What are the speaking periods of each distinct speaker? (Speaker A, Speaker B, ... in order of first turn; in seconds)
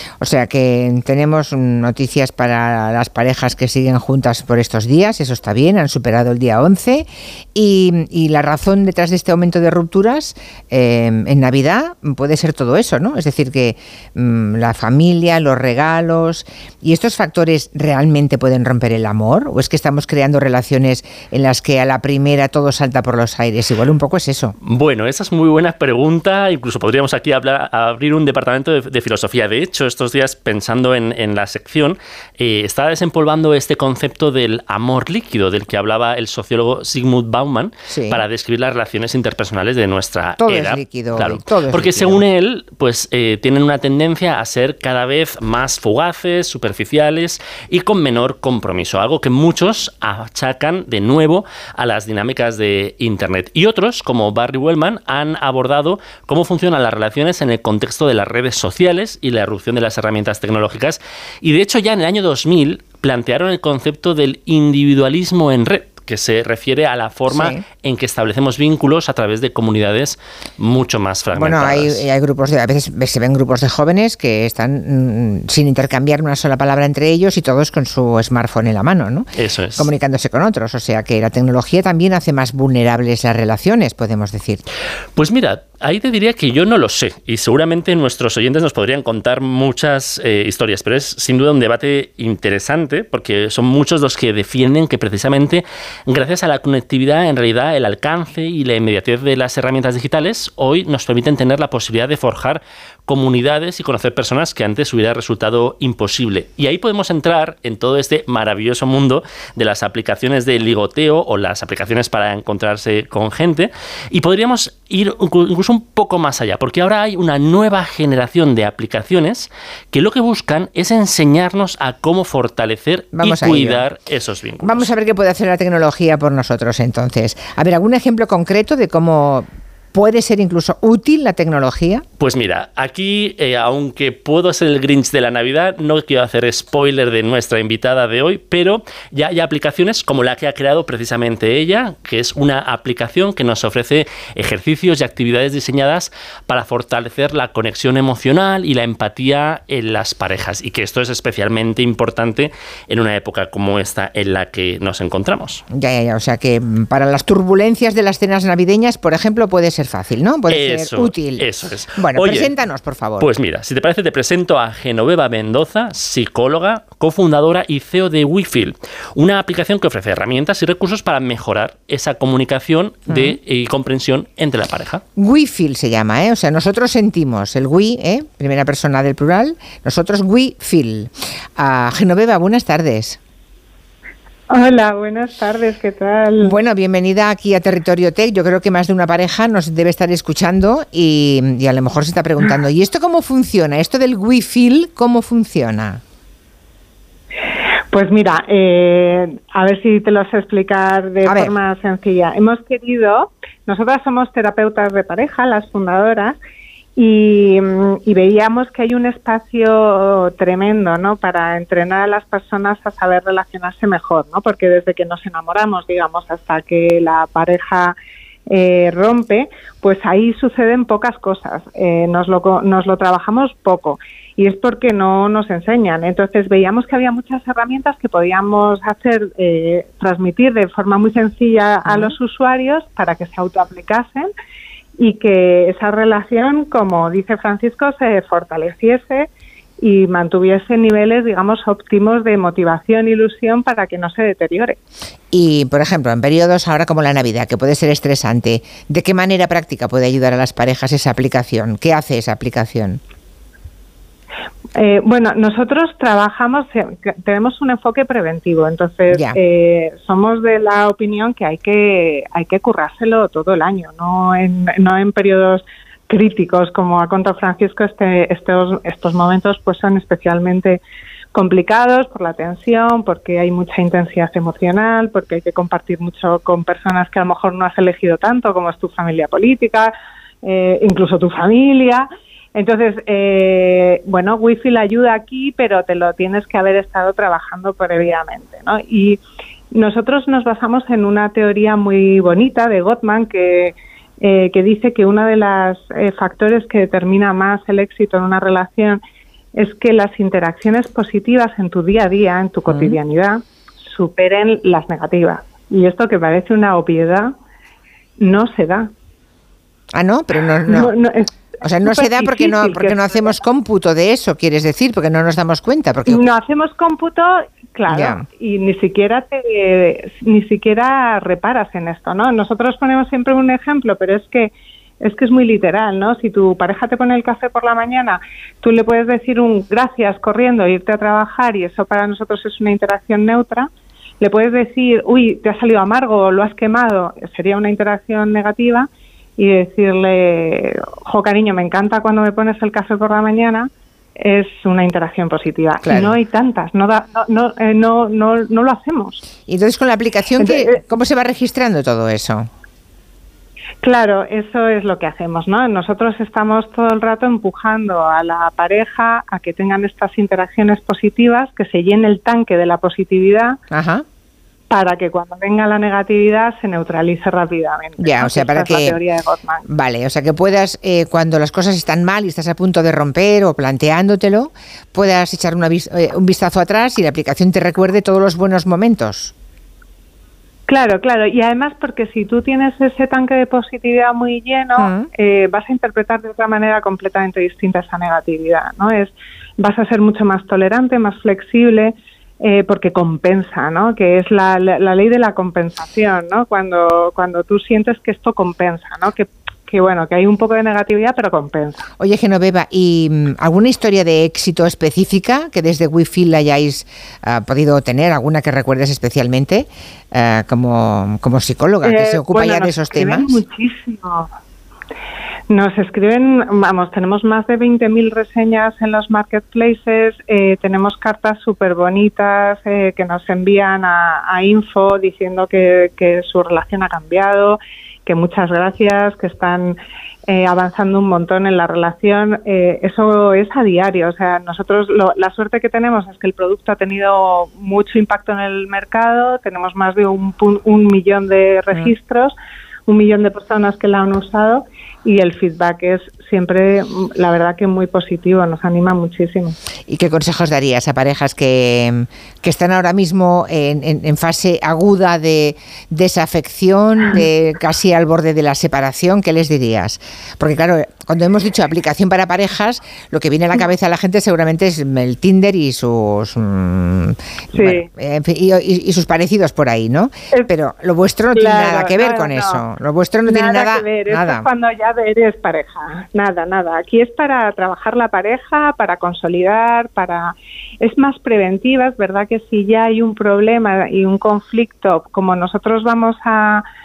Speaker A: 0.2-24.6, 37.9-38.2, 40.4-42.2, 67.3-67.6, 71.3-84.6, 123.1-123.8, 124.6-132.0, 155.7-163.3, 173.1-173.3, 175.2-183.2, 186.4-196.0, 201.3-201.5, 231.8-232.2, 245.3-253.0, 259.1-259.4, 302.7-303.0, 309.9-310.9, 311.6-316.2, 317.9-318.2, 345.8-346.2, 349.5-352.5, 363.7-364.1, 368.0-369.0, 369.7-379.3, 384.8-385.1, 402.0-413.4, 449.9-474.5
Speaker B: 24.7-72.0, 79.4-79.9, 85.2-124.9, 132.2-155.6, 160.5-162.5, 163.2-175.0
Speaker C: 184.5-186.5, 197.9-206.4, 207.0-217.9, 218.5-234.3, 235.0-239.3, 239.8-244.8, 254.8-270.8, 271.3-279.9, 280.4-289.2, 289.7-299.0, 299.6-307.3, 308.2-308.9, 310.7-313.3, 316.1-333.7, 334.2-343.7, 344.2-349.2, 350.4-350.8, 353.8-363.6, 364.7-369.7, 380.7-401.8, 411.8-414.3, 415.5-429.8, 430.3-442.3, 442.9-449.6, 467.5-467.9, 471.4-472.6, 473.3-486.6